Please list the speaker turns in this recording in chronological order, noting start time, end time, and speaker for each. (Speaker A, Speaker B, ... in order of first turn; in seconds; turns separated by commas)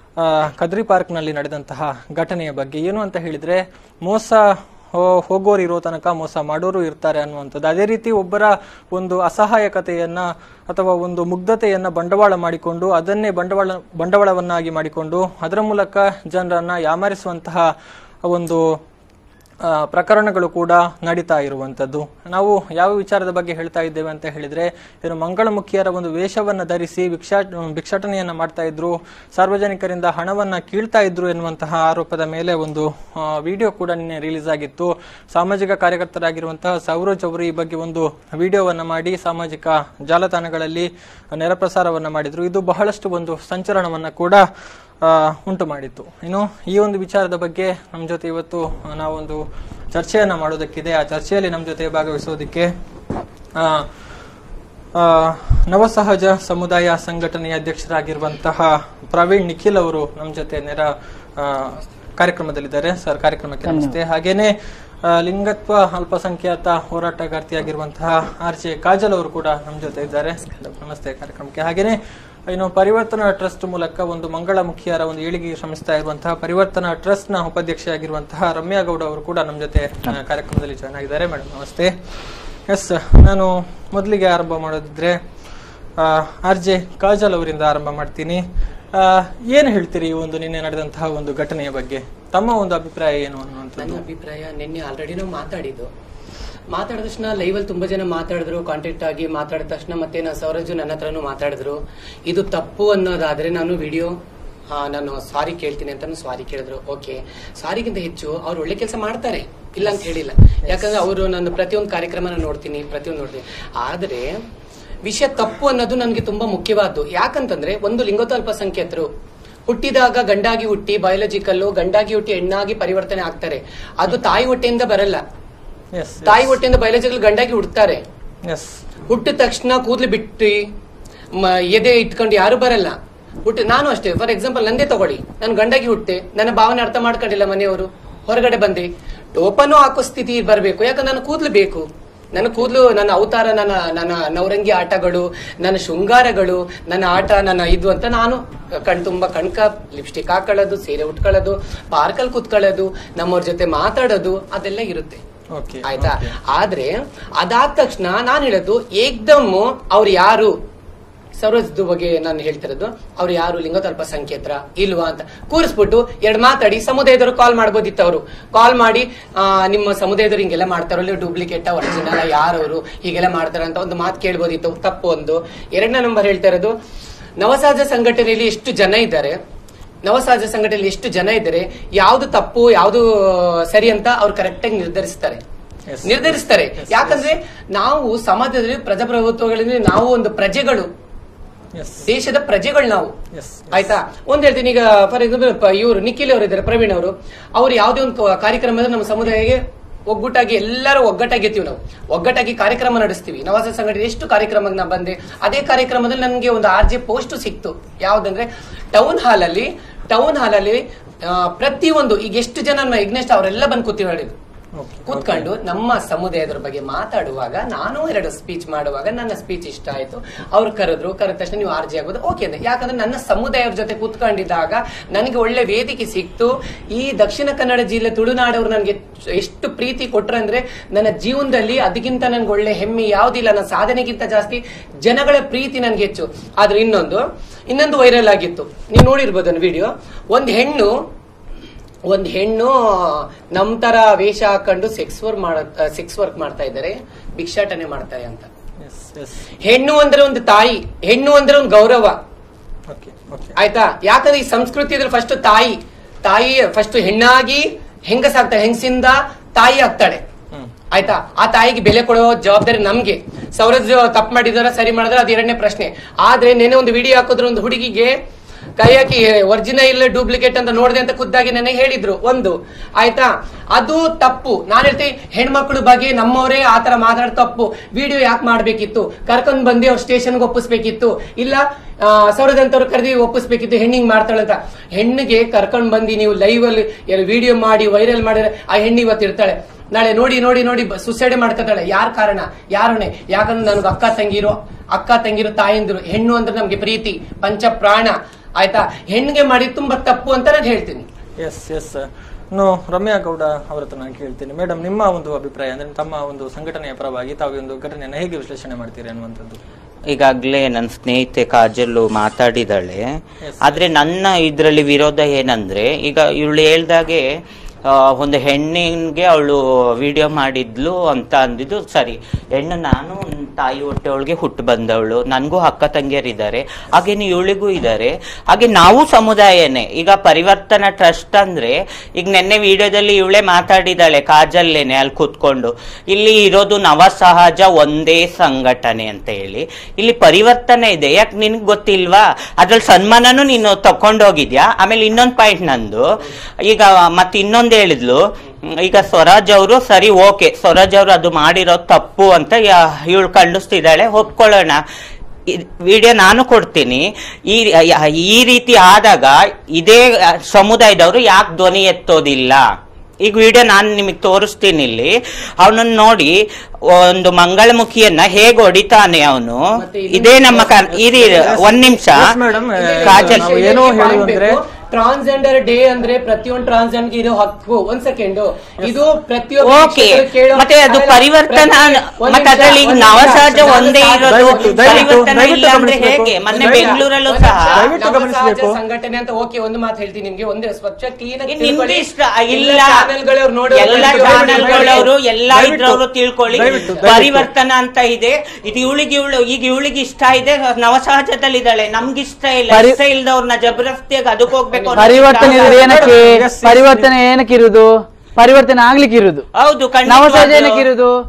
Speaker A: 0.2-17.7, Speaker A: 18.2-18.8, Speaker A: 19.6-44.5, Speaker A: 45.0-52.7, Speaker A: 53.5-53.9, Speaker A: 54.9-64.5, Speaker B: 63.6-63.9, Speaker A: 65.0-85.2, Speaker A: 86.0-88.4, Speaker A: 88.9-94.0, Speaker C: 93.8-95.9, Speaker C: 96.7-104.1, Speaker C: 104.7-114.3, Speaker A: 110.7-111.0, Speaker C: 115.0-119.1, Speaker C: 119.7-125.2, Speaker A: 125.9-126.5, Speaker C: 126.2-128.0, Speaker A: 128.4-128.8, Speaker C: 129.1-130.7, Speaker C: 131.3-155.2, Speaker A: 155.5-156.3, Speaker C: 155.8-160.6, Speaker C: 161.4-176.7, Speaker C: 177.4-179.4, Speaker C: 180.0-185.4, Speaker A: 185.9-187.3, Speaker C: 186.0-190.9, Speaker A: 191.7-192.1, Speaker C: 192.1-193.1, Speaker A: 193.3-193.9, Speaker C: 193.7-214.3, Speaker A: 214.8-215.5, Speaker C: 215.1-241.0, Speaker C: 242.1-248.5, Speaker A: 248.8-249.4, Speaker C: 249.6-252.2, Speaker A: 252.9-253.5, Speaker C: 253.6-260.2, Speaker C: 260.9-268.2, Speaker C: 268.8-301.1, Speaker A: 301.4-309.6, Speaker D: 310.1-317.3, Speaker A: 313.4-313.8, Speaker D: 317.9-346.1, Speaker D: 346.6-354.8, Speaker D: 355.5-362.6, Speaker D: 363.2-372.3, Speaker C: 369.7-371.7, Speaker A: 370.9-374.6, Speaker C: 372.7-385.3, Speaker D: 373.0-373.5, Speaker D: 379.6-387.9, Speaker A: 383.3-387.0, Speaker C: 386.5-395.1, Speaker A: 387.7-388.8, Speaker D: 391.5-393.1, Speaker D: 393.7-406.2, Speaker A: 393.8-397.5, Speaker C: 396.6-397.0, Speaker B: 402.7-403.0, Speaker C: 404.7-405.2, Speaker B: 405.0-409.4, Speaker A: 405.4-407.1, Speaker D: 409.5-410.8, Speaker B: 410.1-411.1